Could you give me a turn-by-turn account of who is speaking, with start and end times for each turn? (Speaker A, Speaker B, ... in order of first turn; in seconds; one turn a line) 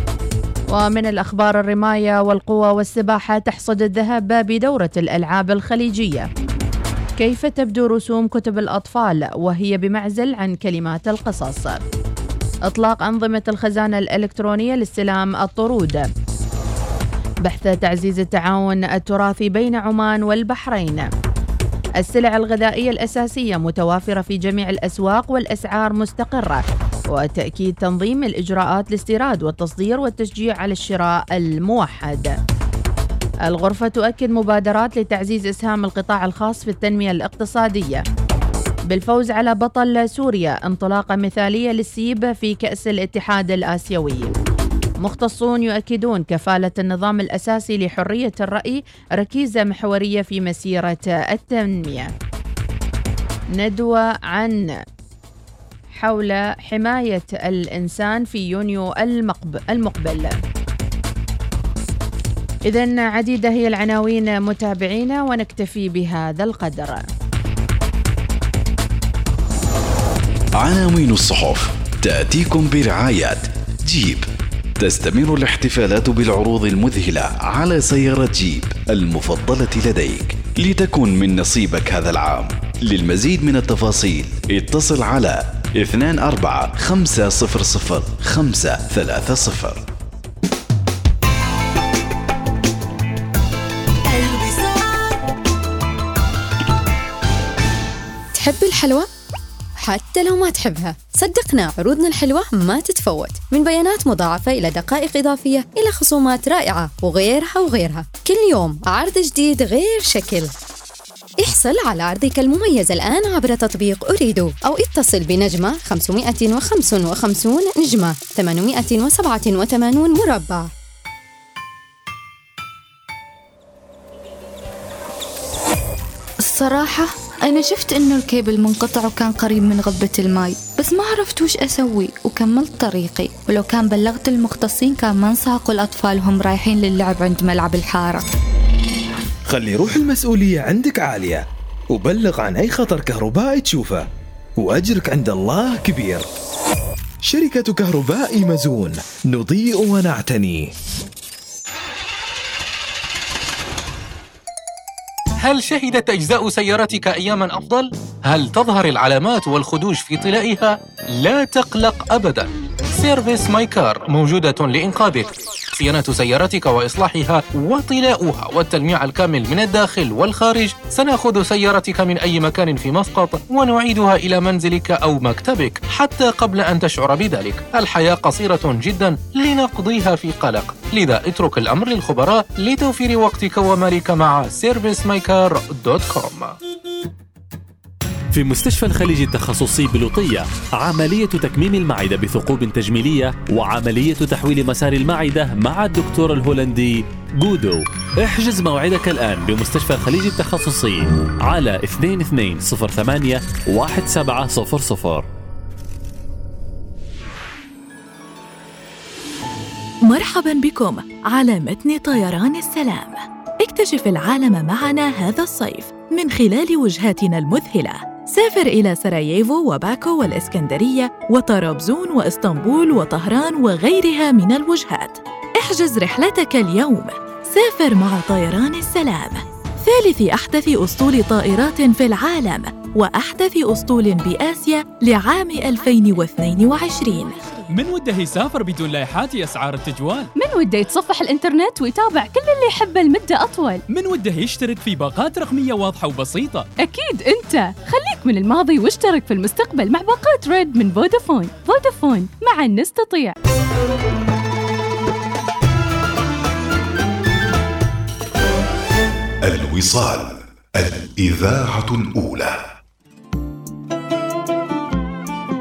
Speaker A: 0.7-6.3
Speaker A: 7.2-11.8
Speaker A: 12.7-16.1
Speaker A: 17.4-21.1
Speaker A: 22.0-32.4
Speaker A: 33.5-38.0
Speaker A: 38.9-44.3
Speaker A: 45.0-52.1
Speaker A: 53.5-54.7
Speaker A: 55.9-60.4
Speaker A: 62.6-67.0
Speaker B: 70.6-74.2
Speaker B: 74.8-89.8
Speaker C: 98.3-99.1
Speaker C: 99.8-110.5
Speaker C: 111.4-120.7
Speaker D: 126.4-138.2
Speaker E: 139.5-144.1
Speaker E: 144.6-146.3
Speaker E: 147.2-150.7
Speaker F: 155.4-186.6
Speaker G: 188.3-205.3
Speaker H: 210.1-237.4
Speaker I: 237.7-240.3
Speaker J: 240.3-243.8
Speaker I: 243.9-246.7
Speaker J: 246.8-253.3
Speaker K: 259.4-262.6